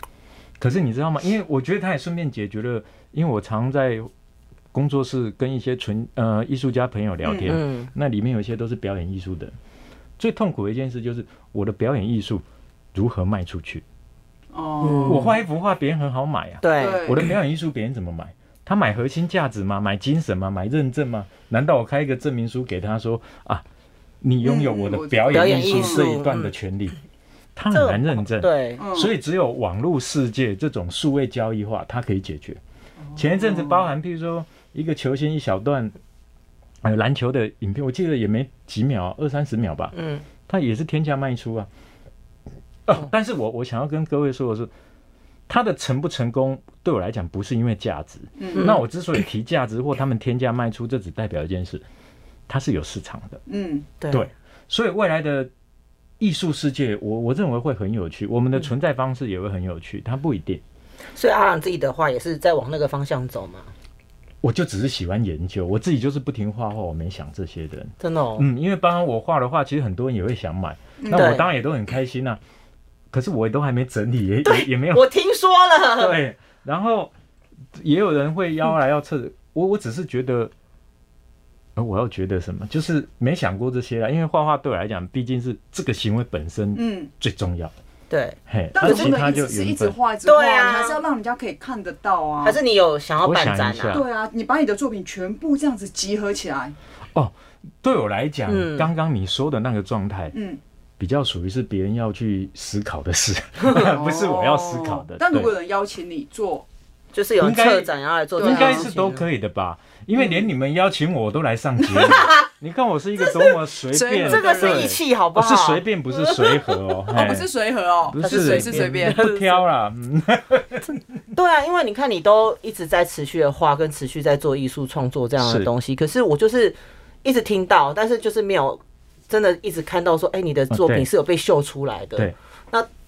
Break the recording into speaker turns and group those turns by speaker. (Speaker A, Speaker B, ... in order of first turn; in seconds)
Speaker A: 0.6-4.1, 4.7-9.5, 10.2-12.4, 12.9-13.8, 15.1-23.6, 24.2-27.0, 27.5-32.6, 33.1-35.9, 36.8-39.9, 40.5-41.7, 42.9-44.7, 45.5-51.8, 52.5-53.4, 54.1-55.5, 56.2-60.6, 64.4-72.4, 73.1-75.1, 76.0-77.1, 77.8-80.5, 81.8-87.7, 88.5-89.9, 93.2-94.0, 97.1-100.3, 101.0-105.5, 107.4-117.5, 118.1-121.0, 125.4-125.7, 130.7-131.1
Speaker B: 7.2-7.6, 14.5-15.3, 16.8-17.3, 24.4-26.1, 28.8-29.1, 33.0-33.9, 48.4-48.8, 53.5-53.9, 71.0-71.4, 86.7-87.1, 88.7-92.6, 93.9-96.8, 100.3-100.6, 103.8-106.7, 108.4-108.9, 110.2-110.4, 113.9-115.0, 117.1-119.2
Speaker C: 7.5-7.9, 14.8-15.4, 16.6-17.3, 25.3-26.5, 27.7-28.8, 39.9-40.2, 48.5-48.8, 54.0-54.3, 61.1-63.7, 68.0-68.5, 71.1-71.5, 74.4-76.2, 88.1-89.2, 90.2-91.0, 92.4-94.0, 98.5-98.9, 107.1-109.2, 114.2-116.5, 118.2-119.7, 121.3-132.9